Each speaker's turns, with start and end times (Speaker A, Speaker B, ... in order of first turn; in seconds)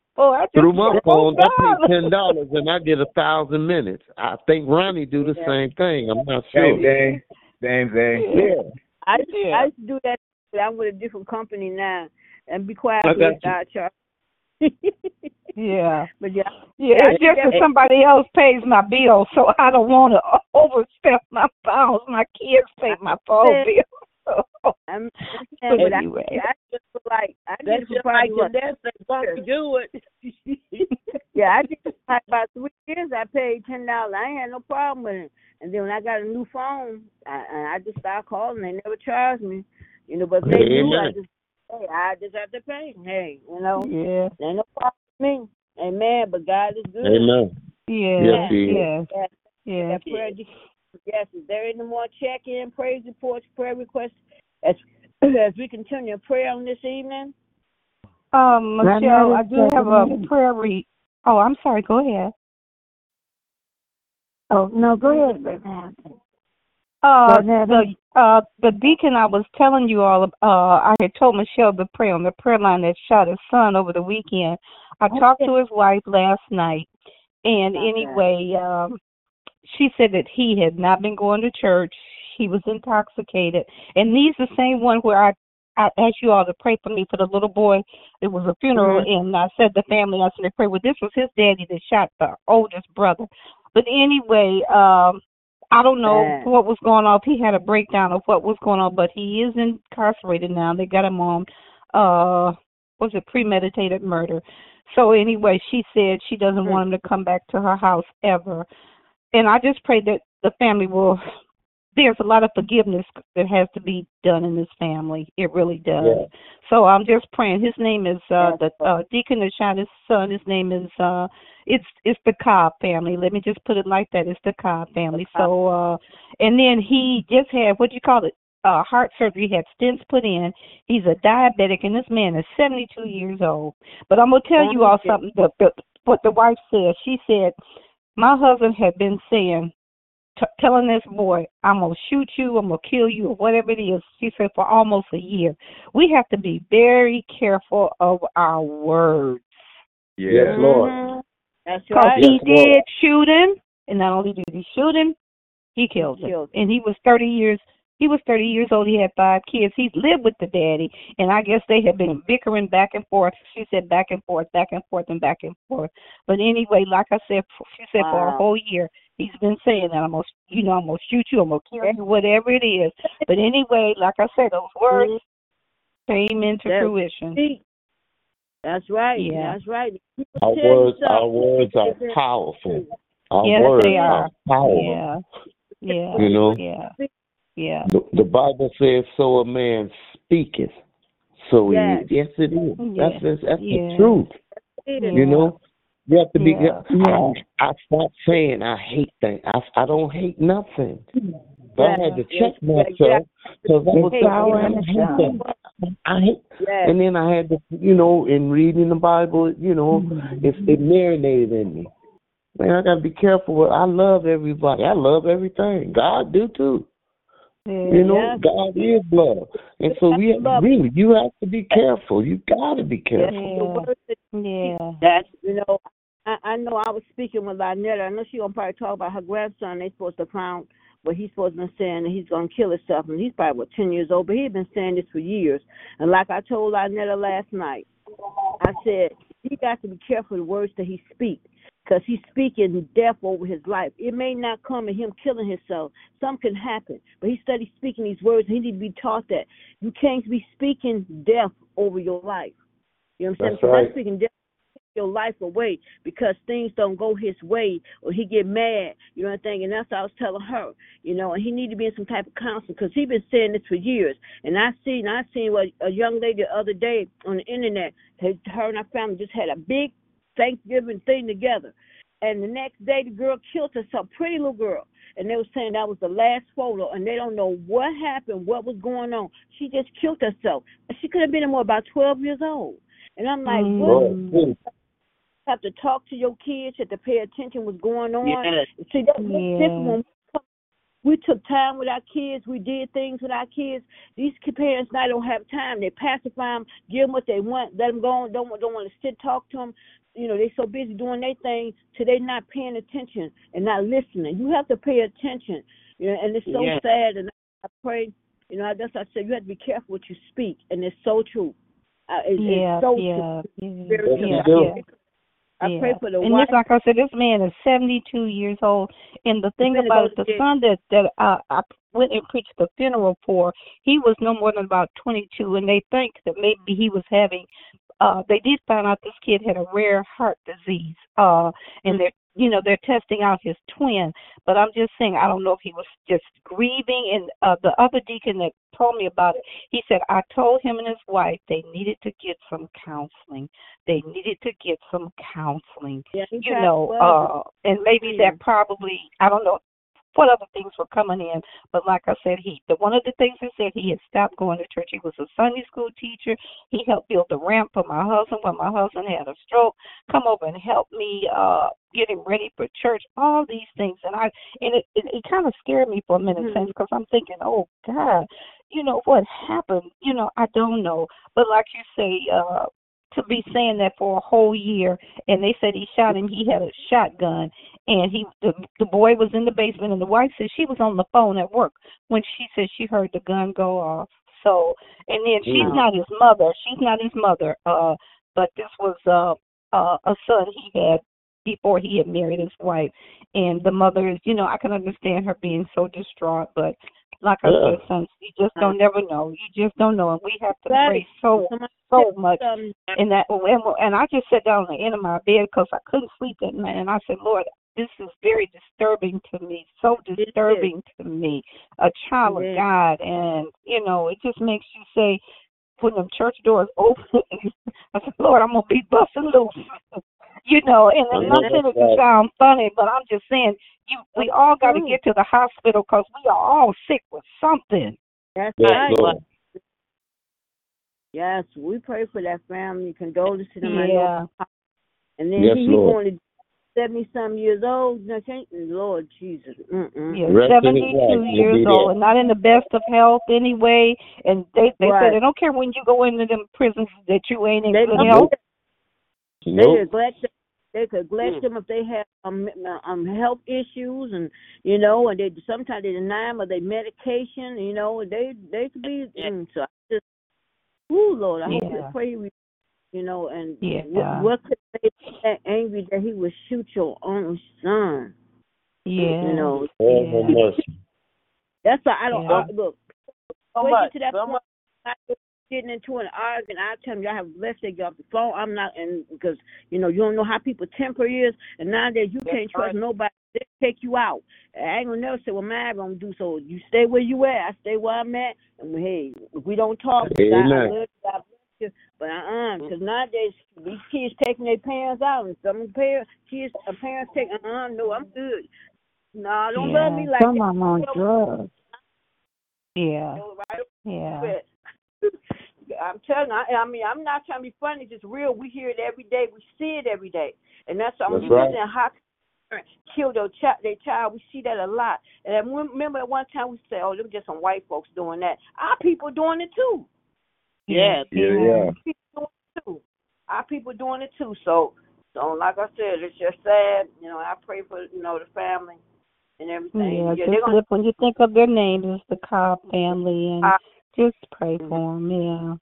Speaker A: 0.2-2.2, 8.2-8.5, 15.6-16.1, 16.8-24.7, 25.6-26.4, 43.8-44.3, 47.9-49.1, 49.7-50.3, 58.3-62.3, 67.0-76.9, 77.4-79.0, 79.6-95.2, 95.7-108.7, 109.3-111.2, 111.9-137.5, 138.2-139.7, 140.4-149.6, 151.9-155.1, 155.8-175.2, 176.1-177.4, 179.2-179.6, 183.4-185.2, 185.8-186.9, 187.6-187.9, 192.8-194.2, 195.0-195.4, 196.4-197.3, 217.7-218.2, 223.3-225.0, 283.4-284.4, 289.2-290.0, 312.4-314.8, 315.6-327.5, 328.0-349.6, 350.1-402.4, 402.9-415.2, 415.8-428.0, 433.6-434.3, 440.1-448.3, 461.4-461.9, 463.6-464.3, 468.9-470.4, 472.1-472.5, 499.5-500.1, 502.8-503.2, 503.9-504.3, 520.7-521.7, 529.7-535.6
Speaker B: 0.6-6.9, 8.3-8.7, 13.1-13.5, 40.4-41.1, 47.0-47.5, 48.2-48.9, 116.0-116.3, 150.3-151.0, 152.1-152.8, 180.4-185.0, 186.2-186.6, 187.9-190.7, 191.4-194.3, 195.1-201.0, 201.8-211.9, 212.6-216.9, 217.9-223.3, 253.4-253.9, 283.8-284.6, 314.1-314.7, 385.4-385.8, 397.4-397.8, 421.1-422.0, 428.6-429.2, 435.4-436.0, 440.3-441.9, 448.0-448.3, 449.4-449.9, 469.8-470.7, 490.0-490.8, 511.1-511.6
Speaker C: 6.5-8.5, 150.2-150.6, 521.1-521.7
Speaker D: 9.0-13.9, 14.6-15.3, 16.2-17.6, 23.4-23.7, 24.9-28.5, 31.3-47.3, 48.2-50.5, 51.0-57.3, 75.1-75.5, 77.7-78.2, 88.8-89.1, 96.0-96.5, 118.4-118.8, 125.1-125.5, 134.6-135.2, 150.5-152.4, 156.0-156.5, 168.0-168.4, 174.9-175.2, 176.7-177.6, 178.6-182.9, 183.6-184.2, 185.9-187.1, 191.7-192.1, 194.6-195.5, 201.8-203.2, 204.0-205.5, 206.6-206.9, 218.0-218.4, 219.9-220.7, 223.1-237.9, 238.6-252.5, 253.2-254.3, 254.9-284.0, 285.4-290.4, 291.0-311.5, 312.1-313.3, 313.9-314.9, 315.6-316.6, 319.6-320.4, 346.1-347.3, 348.0-348.4, 366.4-366.6, 400.7-402.8, 410.2-410.7, 412.2-412.6, 421.2-421.6, 424.1-425.0, 428.4-429.1, 431.1-434.4, 435.2-436.2, 436.7-440.2, 444.8-445.2, 447.7-448.3, 449.5-460.0, 460.9-462.3, 462.9-468.1, 469.0-469.7, 471.6-472.8, 473.6-498.5, 499.1-501.0, 503.1-504.4, 505.7-511.9, 512.5-519.9, 521.9-528.8, 529.4-530.6
Speaker E: 9.2-9.7, 17.1-17.6, 27.6-30.9, 288.2-288.7, 306.5-306.8, 428.6-429.1, 469.2-469.7, 473.6-474.4, 482.2-482.8, 520.7-521.1
Speaker F: 58.8-60.3, 64.5-66.1, 67.3-67.9, 203.9-205.4, 500.2-501.5